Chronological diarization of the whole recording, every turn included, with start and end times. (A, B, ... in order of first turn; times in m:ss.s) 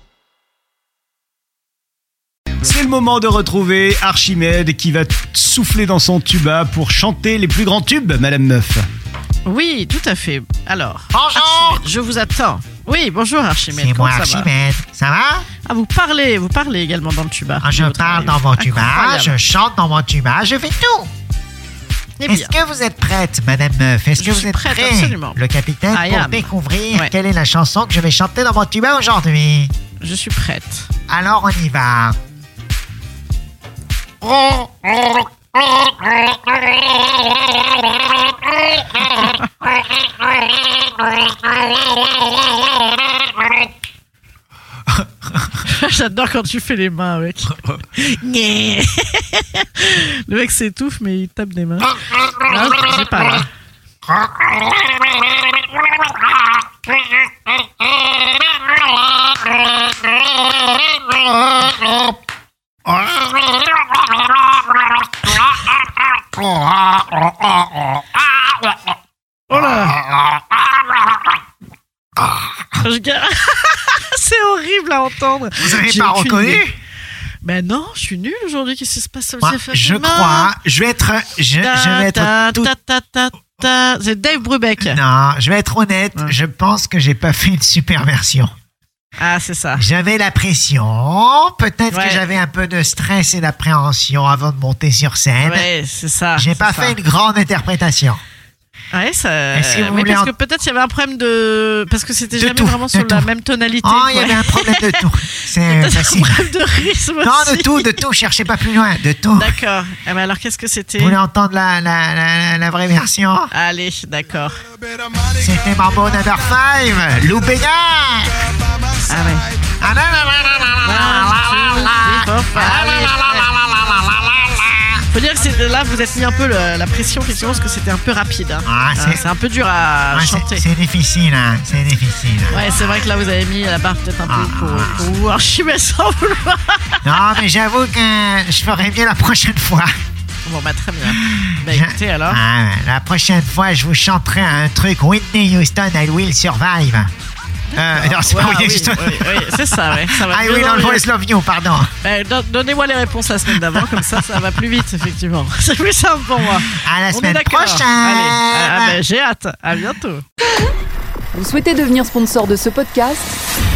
0:02.6-0:08.8 A
0:09.4-0:14.5 B
0:11.1-0:11.9 C
0:13.7-0:15.4 C
0:15.6-0:19.4 B
0:17.6-0:21.1 C
0:22.2-0:22.6 B
0:22.2-0:29.7 C
0:24.2-0:25.4 B
0:25.9-0:27.1 B
0:30.0-0:30.9 B
0:31.1-0:32.2 C
0:34.2-0:35.2 C
0:45.6-0:53.5 B
1:06.5-1:08.0 C
1:09.5-1:10.0 B
1:10.1-1:10.6 C
1:12.8-1:16.6 B
1:15.6-1:16.7 C
1:17.4-1:20.5 B
1:19.4-1:22.7 C
1:21.6-1:25.0 B
1:24.8-1:28.5 C
1:29.2-1:29.9 B
1:29.8-1:35.7 C
1:31.9-1:32.2 B
1:35.4-1:37.0 B
1:36.3-1:38.2 C
1:38.9-1:48.0 B
1:39.5-1:40.3 C
1:42.3-1:43.3 C
1:43.8-1:46.5 C
1:47.2-1:49.6 C
1:49.3-1:51.2 B
1:51.0-1:53.5 C
1:53.5-1:54.6 B
1:55.3-1:58.4 C
1:59.1-1:59.5 B
1:59.8-2:05.0 C
2:00.8-2:03.5 B
2:05.1-2:10.7 B
2:08.6-2:09.3 C
2:10.1-2:12.9 C
2:12.5-2:17.4 B
2:14.2-2:15.0 C
2:17.0-2:19.9 C
2:20.4-2:22.4 B
2:21.1-2:27.1 C
2:27.7-2:31.0 B
2:27.8-2:31.9 C
2:32.0-2:40.2 B
2:36.7-2:39.0 C
2:41.3-2:43.4 D